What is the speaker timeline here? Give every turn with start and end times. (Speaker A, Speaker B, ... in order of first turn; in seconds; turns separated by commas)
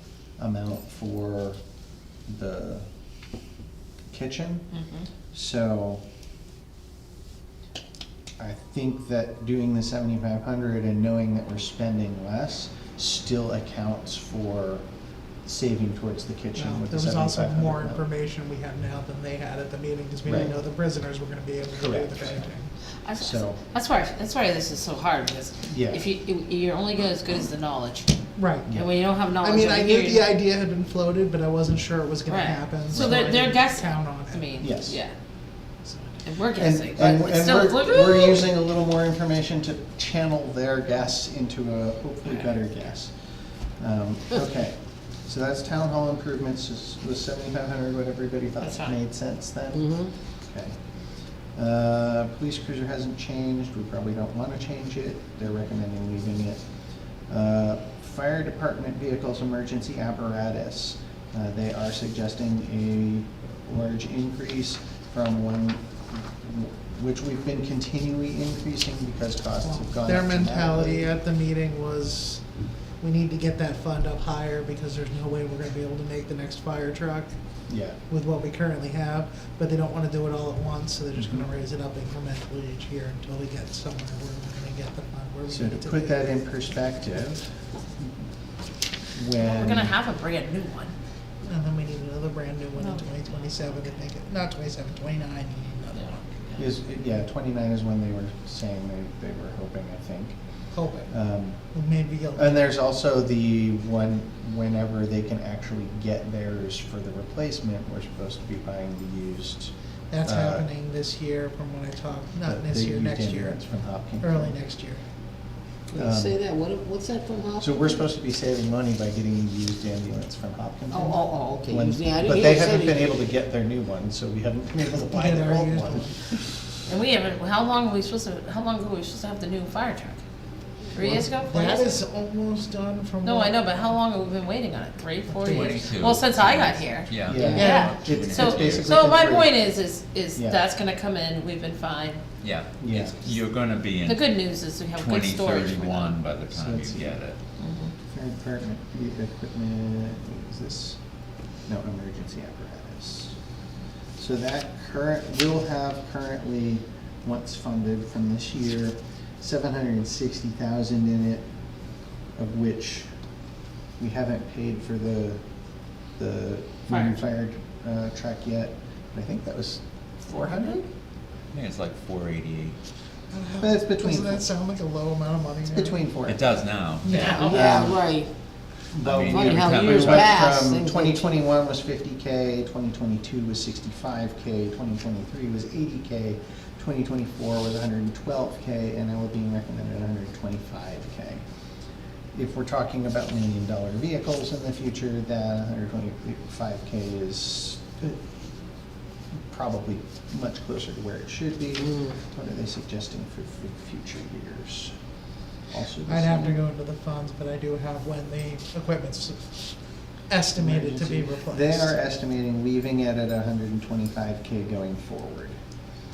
Speaker A: 0.4-1.6, Speaker A: 2.3-2.9, Speaker A: 4.1-4.7, Speaker B: 4.7-5.1, Speaker A: 5.3-6.0, Speaker A: 8.4-14.9, Speaker A: 15.4-18.0, Speaker C: 16.6-22.7, Speaker A: 20.2-20.6, Speaker A: 21.8-22.5, Speaker B: 23.1-28.1, Speaker A: 23.2-23.6, Speaker A: 25.7-26.0, Speaker C: 28.4-28.7, Speaker B: 28.7-30.2, Speaker C: 29.4-34.4, Speaker B: 32.3-35.1, Speaker A: 32.9-33.3, Speaker A: 34.6-35.0, Speaker C: 35.8-36.2, Speaker B: 36.2-38.5, Speaker A: 36.6-43.1, Speaker B: 42.2-42.5, Speaker A: 43.8-50.8, Speaker B: 48.6-49.0, Speaker D: 49.7-50.1, Speaker A: 51.5-56.6, Speaker A: 57.3-65.8, Speaker A: 66.4-71.1, Speaker C: 69.8-72.4, Speaker C: 73.0-77.3, Speaker A: 77.7-78.0, Speaker C: 78.1-86.2, Speaker A: 81.2-81.4, Speaker A: 85.5-87.5, Speaker A: 89.1-89.9, Speaker B: 89.4-90.9, Speaker C: 91.4-96.4, Speaker B: 92.8-93.9, Speaker B: 95.9-96.6, Speaker A: 96.6-100.4, Speaker C: 100.7-101.1, Speaker A: 101.1-101.6, Speaker C: 101.7-102.6, Speaker A: 102.3-109.7, Speaker C: 110.1-113.6, Speaker A: 110.2-110.7, Speaker A: 112.4-114.6, Speaker C: 114.2-115.0, Speaker A: 115.9-116.3, Speaker D: 115.9-118.0, Speaker A: 117.6-126.5, Speaker D: 120.9-123.1, Speaker C: 125.1-126.1, Speaker B: 126.9-130.2, Speaker B: 130.9-131.9, Speaker C: 131.4-133.5, Speaker B: 133.2-142.2, Speaker C: 135.3-135.8, Speaker E: 135.4-139.0, Speaker A: 137.3-139.5, Speaker C: 137.4-138.0, Speaker E: 142.4-147.4, Speaker A: 142.8-143.2, Speaker B: 144.0-146.2, Speaker A: 146.5-147.2, Speaker B: 147.6-147.9, Speaker A: 148.1-151.0, Speaker A: 151.7-153.3, Speaker A: 154.2-161.4, Speaker A: 162.4-163.1, Speaker A: 164.0-165.4, Speaker A: 166.2-170.9, Speaker B: 166.9-167.2, Speaker E: 171.5-172.8, Speaker C: 173.3-176.0, Speaker A: 173.6-174.5, Speaker A: 175.7-176.4, Speaker E: 176.2-177.4, Speaker B: 177.0-177.9, Speaker D: 177.1-178.3, Speaker A: 177.5-178.0, Speaker A: 178.9-191.4, Speaker E: 179.0-180.6, Speaker D: 179.3-181.2, Speaker A: 192.3-198.2, Speaker A: 199.5-204.9, Speaker A: 205.7-206.6, Speaker C: 206.1-209.8, Speaker C: 210.3-211.9, Speaker A: 210.6-215.6